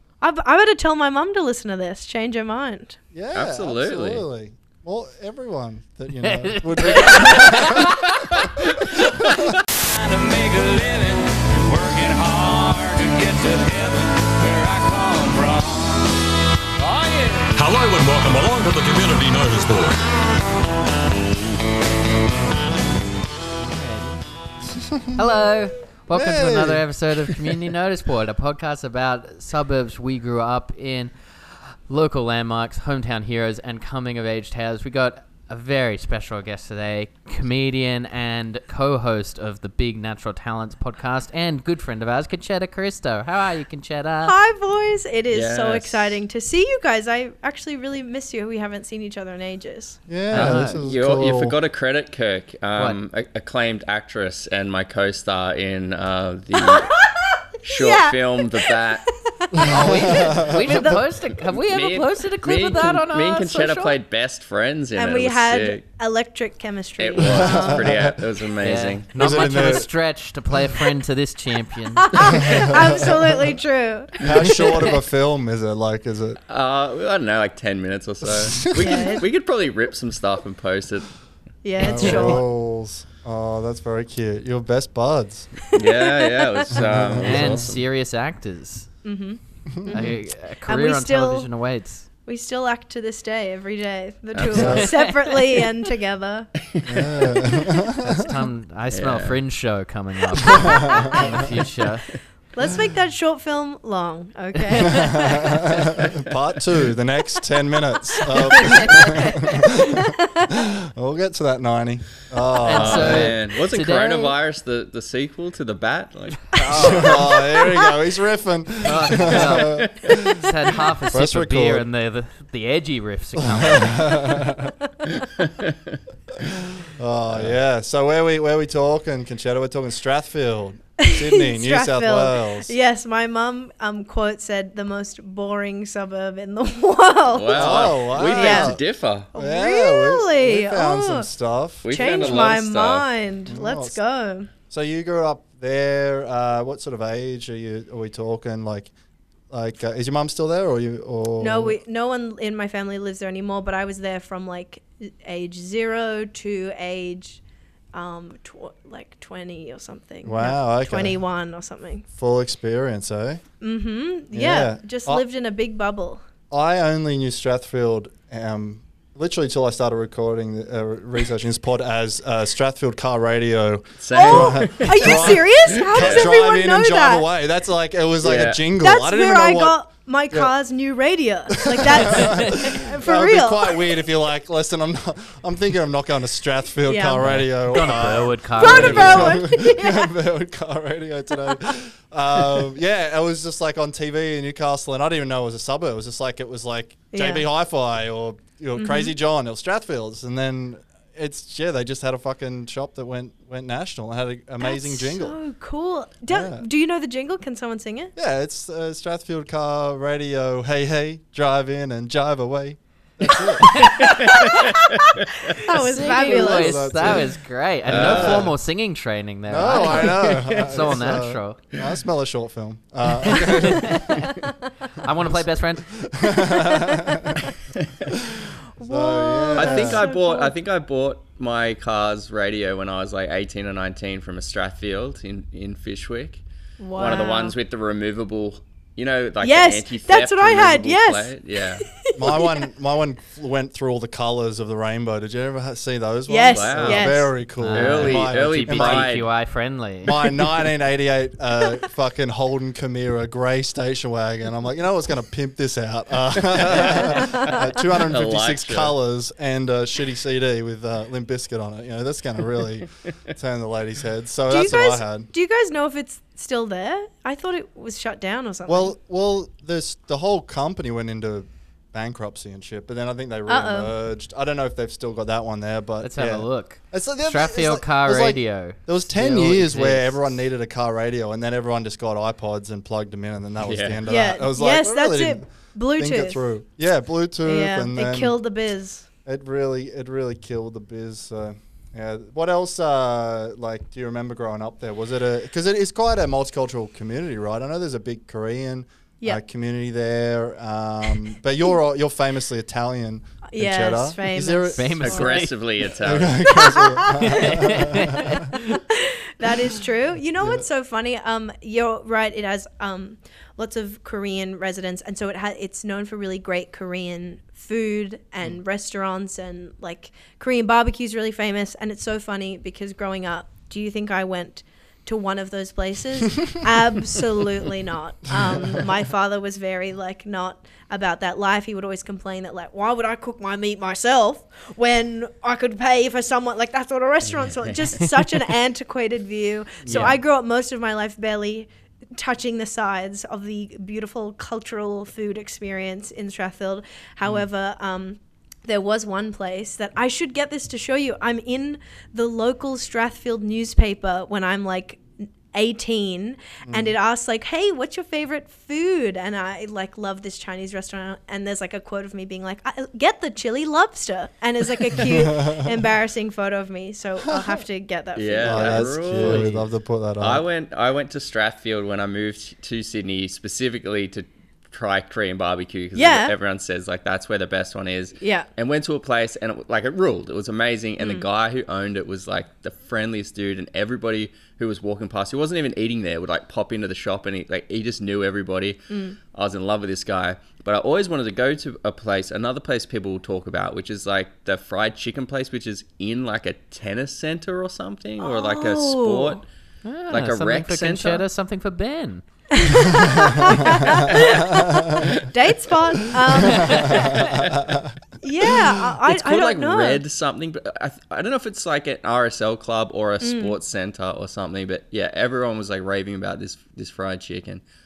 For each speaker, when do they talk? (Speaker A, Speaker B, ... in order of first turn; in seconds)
Speaker A: 0.2-3.0, 44.2-50.0, 56.5-61.0, 65.0-67.9, 72.0-74.2, 78.8-79.2, 81.6-82.4, 89.0-90.1, 90.7-91.5, 92.2-96.5, 102.5-105.7, 108.1-110.5, 131.0-138.8, 139.3-141.3, 141.9-144.5, 151.4-157.4, 157.9-162.1, 163.6-166.2, 174.2-177.2, 178.8-183.8, 186.9-187.8, 188.5-190.1, 197.1-197.4, 198.8-199.1, 204.6-208.1, 214.0-217.2, 226.7-226.9, 228.8-230.5, 236.8-237.5, 239.4-242.7, 246.3-247.3, 257.0-257.5, 264.5-268.9, 273.5-273.9, 284.1-286.4, 287.4-289.1, 303.5-305.3, 306.4-307.6, 308.2-368.9, 375.9-376.3, 378.2-378.5, 388.9-389.1, 398.2-399.4, 402.5-407.1, 408.2-410.0, 413.2-413.5
Speaker B: 3.1-8.0, 9.0-9.5, 24.7-25.1, 26.1-27.6, 50.1-51.5, 59.5-61.0, 67.2-68.2, 69.1-69.9, 74.2-76.4, 78.2-79.0, 81.8-85.6, 86.7-87.6, 89.7-90.1, 94.5-94.9, 96.8-98.3, 104.9-110.0, 110.8-113.3, 116.7-120.4, 121.1-121.8, 123.3-124.7, 126.8-132.7, 137.5-138.8, 139.3-142.5, 143.5-144.0, 144.7-148.9, 149.5-151.8, 160.2-161.2, 162.1-163.4, 164.3-165.2, 166.5-179.8, 181.7-205.4, 206.3-206.7, 208.2-213.8, 216.0-217.3, 217.9-218.5, 219.5-224.2, 225.2-227.4, 228.3-230.0, 242.1-249.1, 250.0-265.3, 268.7-288.3, 289.2-305.1, 306.0-308.0, 328.3-328.8, 339.8-340.2, 356.6-356.9, 364.9-365.7, 367.3-367.6, 368.4-370.4, 403.9-404.3, 407.3-407.9
Speaker C: 3.3-4.2, 45.3-46.1, 50.3-56.9, 57.6-59.1, 61.5-65.8, 67.0-69.1, 76.5-81.1, 85.7-87.8, 94.3-94.8, 98.9-99.4, 112.7-117.2, 119.0-120.3, 125.4-126.0, 137.3-139.3, 141.8-143.1, 174.0-176.3, 178.2-178.6, 214.3-215.1, 217.9-218.5, 219.8-221.0, 229.6-236.4, 236.9-241.9, 246.5-247.2, 247.7-249.3, 256.5-257.1, 258.1-258.9, 283.6-284.0, 305.0-306.4, 337.4-337.7, 368.1-369.6, 370.2-399.5, 400.1-401.2, 406.9-407.8, 409.1-417.6
Speaker D: 6.2-8.5, 23.6-24.2, 25.1-31.1, 31.9-44.3, 50.3-50.8, 59.6-64.0, 68.6-72.7, 81.9-82.4, 87.1-88.9, 89.9-92.0, 94.5-95.4, 98.0-102.2, 112.6-114.3, 116.5-117.2, 118.8-124.4, 187.2-189.4, 215.7-221.6, 223.3-224.2, 225.0-225.9, 247.6-250.3, 276.0-280.2, 304.8-305.5, 307.2-308.6, 369.2-369.5, 399.8-402.2
Speaker E: 9.8-16.2, 16.8-17.5
Speaker F: 17.5-20.0